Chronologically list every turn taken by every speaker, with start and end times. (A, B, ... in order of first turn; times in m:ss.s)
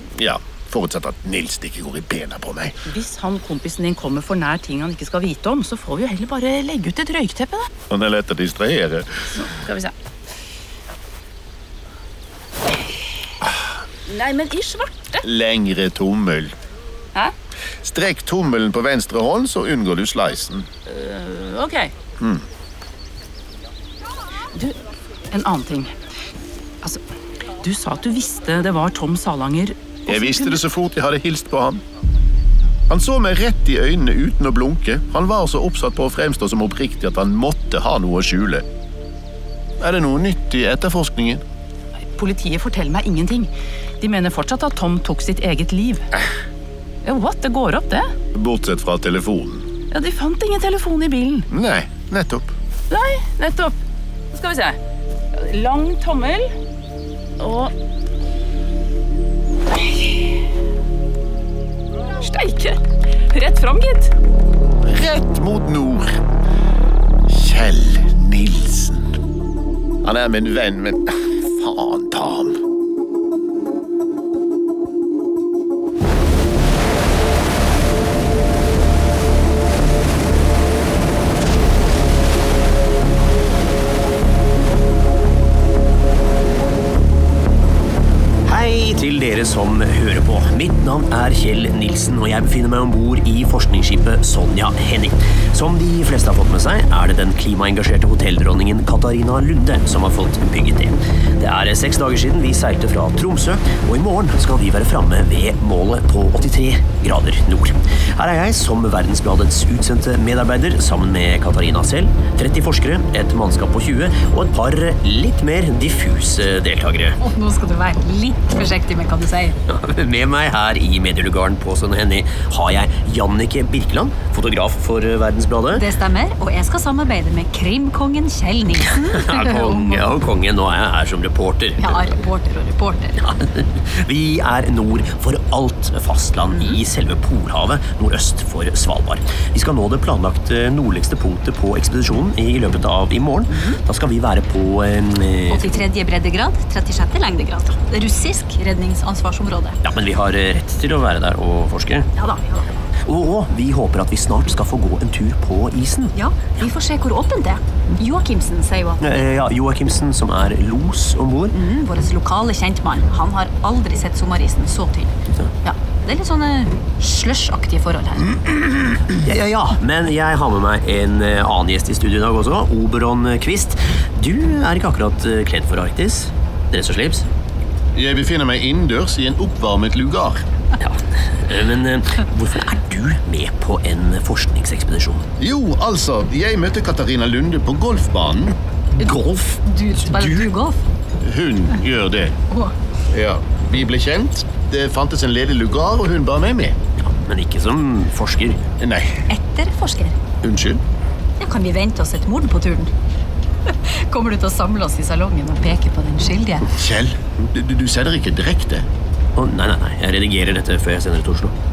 0:00.1-0:02.8 A
0:02.8-0:07.7 B
0:07.9-0:09.1 A
0:09.3-0:09.9 B
0:14.1-0:15.2 B
0:15.2-0:16.5 A
0:17.8-0:20.7 A
0:20.8-0:21.9 B
0:25.3-0:25.9 B
0:27.6-0:30.6 B
0:30.1-0:31.8 A
0:32.9-0:38.6 A
0:39.8-0:41.4 A
0:42.2-0:46.1 B
0:47.0-0:48.1 B
0:48.3-0:49.7 A
0:49.9-0:51.5 B
0:51.5-0:52.5 A
0:52.9-0:53.7 B
0:54.3-0:54.8 B
0:55.3-0:56.5 B
0:57.4-0:57.7 B
1:02.2-1:02.8 B
1:03.3-1:04.1 B
1:04.8-1:06.2 A
1:07.3-1:09.2 A
1:10.0-1:12.6 A
1:28.4-1:57.2 C
1:57.2-1:59.6 D
1:59.7-2:05.9 C
2:05.7-2:10.1 D
2:08.9-2:12.2 C
2:11.8-2:13.2 D
2:13.2-2:25.8 C
2:16.5-2:16.8 D
2:25.5-2:29.8 D
2:29.8-2:32.1 C
2:32.2-2:32.8 D
2:33.0-2:36.2 C
2:36.1-2:39.0 D
2:39.0-2:41.6 C
2:41.5-2:48.6 D
2:49.1-2:57.3 C
2:57.9-3:00.4 A
3:00.8-3:05.2 C
3:05.4-3:08.6 A
3:09.0-3:10.8 D
3:11.2-3:12.4 A
3:13.1-3:16.8 A
3:17.0-3:18.6 C
3:18.8-3:19.2 A
3:19.3-3:20.2 D
3:20.4-3:20.8 A
3:21.4-3:22.9 D
3:23.7-3:26.6 D
3:26.7-3:28.9 A
3:29.4-3:31.5 C